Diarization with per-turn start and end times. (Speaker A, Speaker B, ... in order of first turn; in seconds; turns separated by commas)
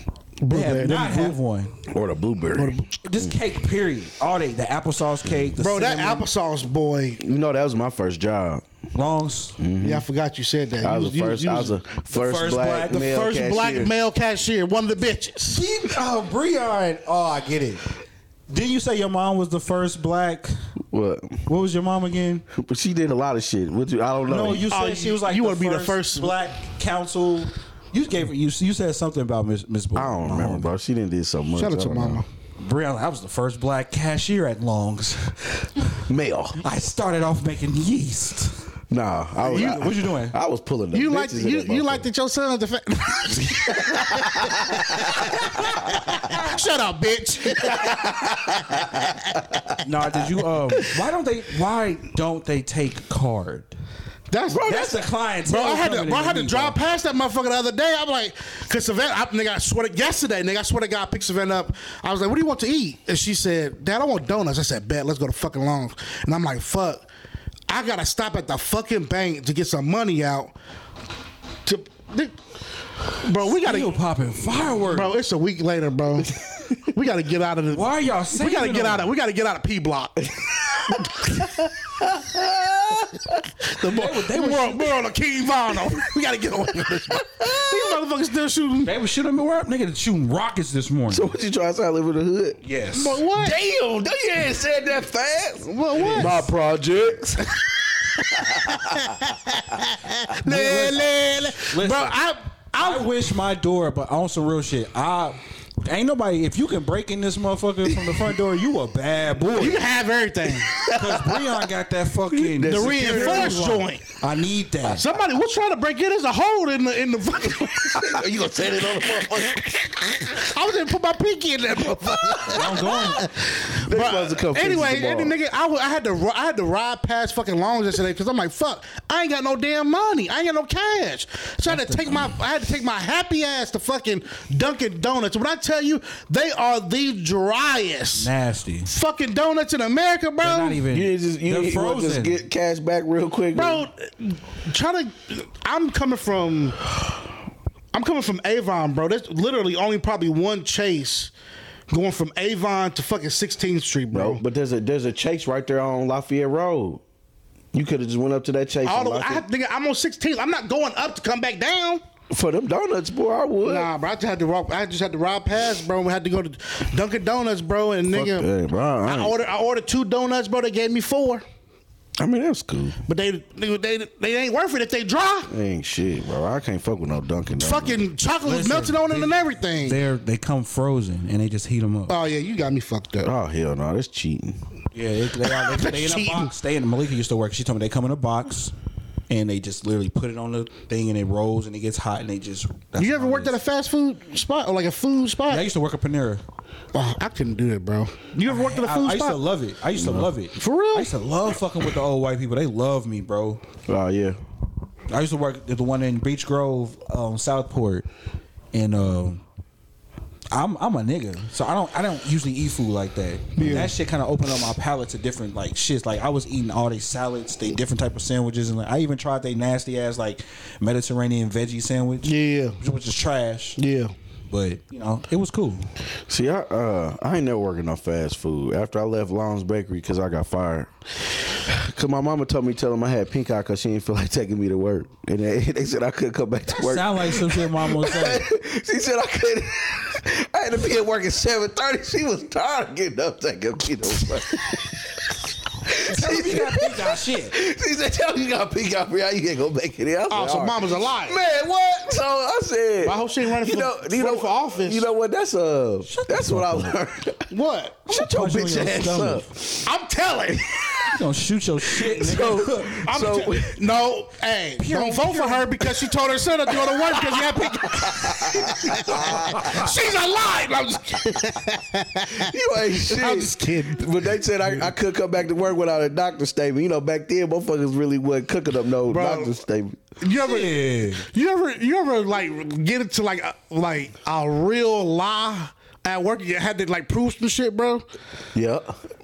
Speaker A: 0.4-1.4, Speaker B: 0.5-1.7, Speaker C: 1.9-3.3, Speaker A: 2.5-2.9, Speaker B: 3.0-6.2, Speaker A: 5.6-7.2, Speaker C: 7.2-8.6, Speaker B: 8.9-9.6, Speaker C: 9.6-10.0, Speaker A: 9.8-11.8, Speaker C: 10.8-13.9, Speaker B: 12.1-13.1, Speaker A: 12.9-15.6, Speaker B: 15.5-17.8, Speaker B: 18.5-20.5, Speaker C: 20.9-21.4, Speaker B: 21.5-22.4, Speaker C: 22.5-24.7, Speaker B: 24.3-30.7, Speaker A: 24.6-26.4, Speaker C: 29.9-32.2, Speaker A: 31.5-32.3, Speaker B: 32.6-35.7, Speaker C: 36.1-36.6, Speaker B: 36.6-38.6, Speaker C: 38.9-42.1, Speaker B: 39.5-40.4, Speaker A: 39.5-39.9, Speaker A: 40.9-49.4, Speaker C: 43.8-45.2, Speaker C: 47.7-49.7, Speaker B: 49.8-53.7, Speaker A: 54.3-54.8, Speaker C: 54.5-55.1, Speaker B: 54.6-56.8, Speaker A: 55.5-67.1, Speaker A: 67.7-70.5, Speaker A: 71.6-72.3, Speaker A: 73.2-74.0, Speaker B: 73.5-75.2, Speaker A: 74.9-81.5, Speaker C: 76.4-76.7, Speaker B: 77.7-79.1, Speaker C: 82.0-83.4, Speaker A: 83.6-88.9, Speaker B: 83.8-84.9, Speaker C: 87.3-87.9, Speaker B: 88.8-91.3, Speaker C: 91.1-92.6, Speaker B: 92.6-93.2, Speaker A: 92.9-93.6, Speaker C: 93.3-99.2, Speaker A: 95.7-96.5, Speaker B: 96.0-96.4, Speaker A: 98.7-103.1, Speaker B: 100.4-102.2, Speaker B: 102.8-109.8, Speaker A: 109.5-110.8, Speaker C: 110.7-111.5, Speaker B: 110.8-115.0, Speaker C: 112.3-113.7, Speaker A: 112.6-114.0, Speaker A: 114.9-118.2, Speaker C: 117.8-120.3, Speaker A: 120.3-138.3, Speaker B: 122.5-123.2, Speaker C: 123.7-125.3, Speaker B: 131.7-132.3, Speaker B: 138.2-138.9, Speaker A: 138.8-140.8, Speaker B: 140.4-142.4, Speaker C: 140.9-143.8, Speaker A: 143.5-146.8, Speaker A: 147.9-151.3, Speaker A: 151.9-154.4, Speaker C: 154.1-157.0, Speaker C: 157.7-159.4, Speaker A: 158.8-162.0, Speaker C: 162.3-163.9, Speaker A: 163.6-168.5, Speaker C: 168.1-169.3, Speaker A: 169.0-171.4, Speaker C: 172.2-173.0, Speaker A: 173.1-175.5, Speaker C: 175.5-178.0, Speaker A: 177.6-180.0, Speaker B: 178.4-182.2, Speaker A: 182.1-183.3, Speaker C: 183.2-184.6, Speaker B: 184.9-188.7, Speaker A: 185.5-186.5, Speaker B: 189.3-193.5, Speaker A: 193.0-195.6, Speaker B: 195.5-196.4, Speaker A: 196.9-199.4, Speaker B: 198.4-203.6, Speaker C: 200.0-200.3, Speaker A: 200.6-201.1, Speaker C: 203.9-204.4, Speaker B: 205.1-208.1, Speaker B: 208.7-209.4, Speaker B: 210.5-223.8, Speaker A: 213.6-213.9, Speaker A: 222.2-222.8, Speaker A: 223.8-224.1, Speaker B: 224.5-225.9, Speaker C: 226.3-245.2, Speaker B: 236.7-238.5, Speaker C: 245.8-257.5, Speaker B: 246.0-247.6, Speaker A: 250.3-251.4, Speaker A: 253.0-255.1, Speaker B: 256.1-256.9, Speaker A: 257.5-258.0, Speaker C: 258.1-259.9, Speaker B: 258.1-259.4, Speaker A: 259.8-261.1, Speaker C: 260.5-260.8, Speaker B: 261.1-263.0, Speaker C: 262.0-263.8, Speaker A: 263.0-274.1, Speaker B: 264.8-266.0, Speaker C: 267.1-269.7, Speaker C: 272.3-280.0, Speaker A: 279.1-279.6, Speaker A: 280.2-288.0, Speaker B: 280.4-281.2, Speaker C: 288.5-289.0